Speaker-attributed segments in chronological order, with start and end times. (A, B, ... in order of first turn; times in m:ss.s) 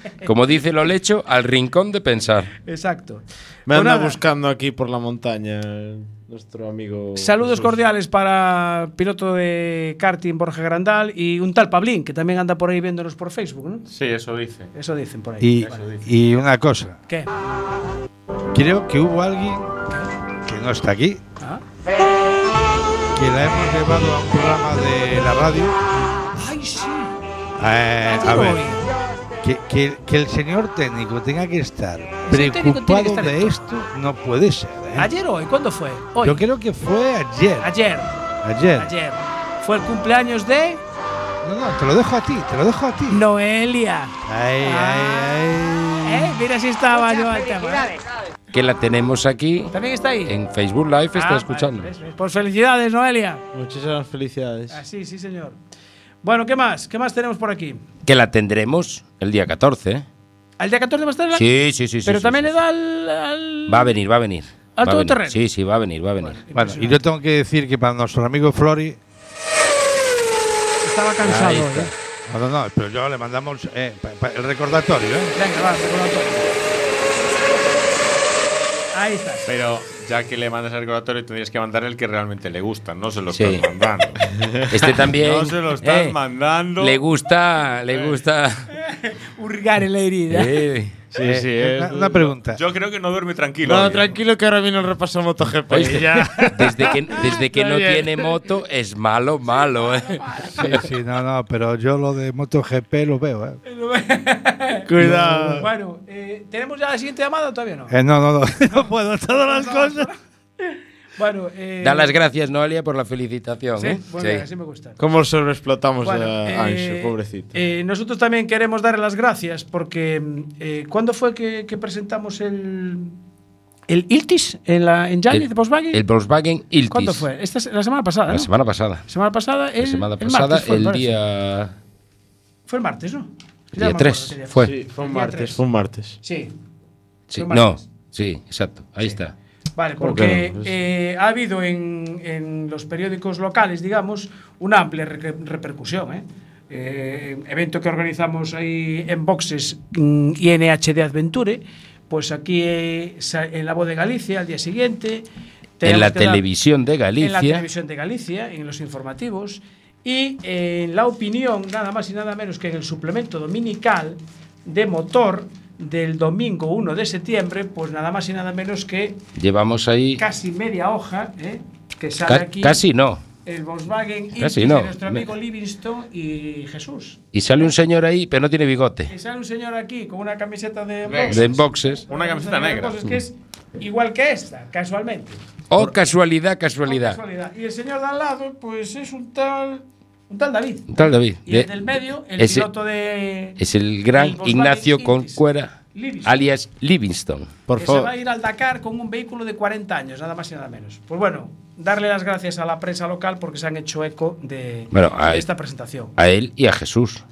0:00.2-0:02.5 A
0:02.6-0:04.2 B
0:03.7-0:07.7 C
0:07.2-0:13.8 B
0:13.9-0:14.7 D
0:14.7-0:15.9 B
0:15.4-0:17.0 E
0:15.6-0:16.1 D
0:18.5-0:19.7 E
0:20.4-0:21.2 E
0:23.1-0:25.7 E
0:26.3-0:27.1 B
0:27.6-0:28.8 E
0:28.1-0:28.9 B
0:29.4-0:35.1 E
0:32.2-0:33.6 B
0:35.0-0:36.4 B
0:36.2-0:37.7 E
0:37.6-0:38.1 B
0:38.4-0:38.9 E
0:38.8-0:40.8 B
0:41.4-0:43.2 E
0:43.1-0:45.4 B
0:44.3-0:46.4 E
0:46.0-0:48.0 B
0:48.5-0:49.7 A
0:49.7-0:50.3 B
0:50.2-0:51.9 A
0:51.1-0:53.4 B
0:53.5-0:54.8 C
0:54.7-0:55.6 B
0:56.2-0:57.8 B
0:58.0-1:00.0 A
1:00.6-1:01.4 B
1:01.3-1:02.6 A
1:02.0-1:03.9 B
1:03.7-1:06.4 A
1:04.8-1:05.4 B
1:06.2-1:07.0 B
1:06.5-1:09.0 E
1:10.8-1:11.9 B
1:11.3-1:11.7 A
1:12.3-1:15.3 E
1:15.3-1:16.6 B
1:18.9-1:19.5 B
1:19.4-1:24.2 D
1:23.3-1:23.6 A
1:24.2-1:24.6 C
1:24.7-1:26.2 A
1:25.1-1:27.0 D
1:26.8-1:28.7 A
1:27.9-1:28.2 D
1:28.8-1:30.6 B
1:30.3-1:30.9 A
1:31.1-1:32.3 C
1:31.2-1:32.6 E
1:32.4-1:34.1 D
1:33.6-1:36.5 C
1:35.7-1:40.8 A
1:37.2-1:37.6 B
1:40.2-1:40.6 B
1:40.6-1:43.6 E
1:43.6-1:44.9 B
1:44.9-1:45.7 C
1:45.0-1:45.6 E
1:45.5-1:47.9 B
1:47.9-1:50.1 E
1:48.7-1:52.1 B
1:51.8-1:54.4 A
1:53.8-1:55.0 B
1:55.0-1:57.5 C
1:56.0-2:03.2 B
2:03.9-2:06.0 B
2:05.3-2:07.3 A
2:06.9-2:08.5 B
2:08.3-2:09.0 A
2:09.0-2:11.1 B
2:09.8-2:11.7 A
2:12.7-2:15.6 B
2:13.8-2:14.7 A
2:14.6-2:16.2 C
2:16.2-2:16.5 B
2:17.3-2:19.3 A
2:17.3-2:17.8 B
2:19.8-2:35.2 B
2:20.0-2:20.7 C
2:35.8-2:36.4 B
2:35.8-2:37.6 A
2:37.2-2:49.2 B
2:49.3-2:50.2 A
2:50.2-2:52.8 B
2:52.2-2:53.2 A
2:53.4-2:57.2 B
2:54.4-2:55.3 A
2:57.3-2:59.1 A
2:59.1-3:05.4 B
3:01.1-3:01.4 D
3:01.3-3:02.0 A
3:02.1-3:03.0 D
3:05.7-3:07.2 A
3:06.8-3:13.6 B
3:10.9-3:11.8 A
3:12.3-3:12.7 A
3:13.6-3:17.5 A
3:14.1-3:15.4 B
3:15.9-3:16.4 B
3:17.7-3:18.1 C
3:17.8-3:26.1 B
3:24.9-3:25.5 A
3:26.2-3:27.2 A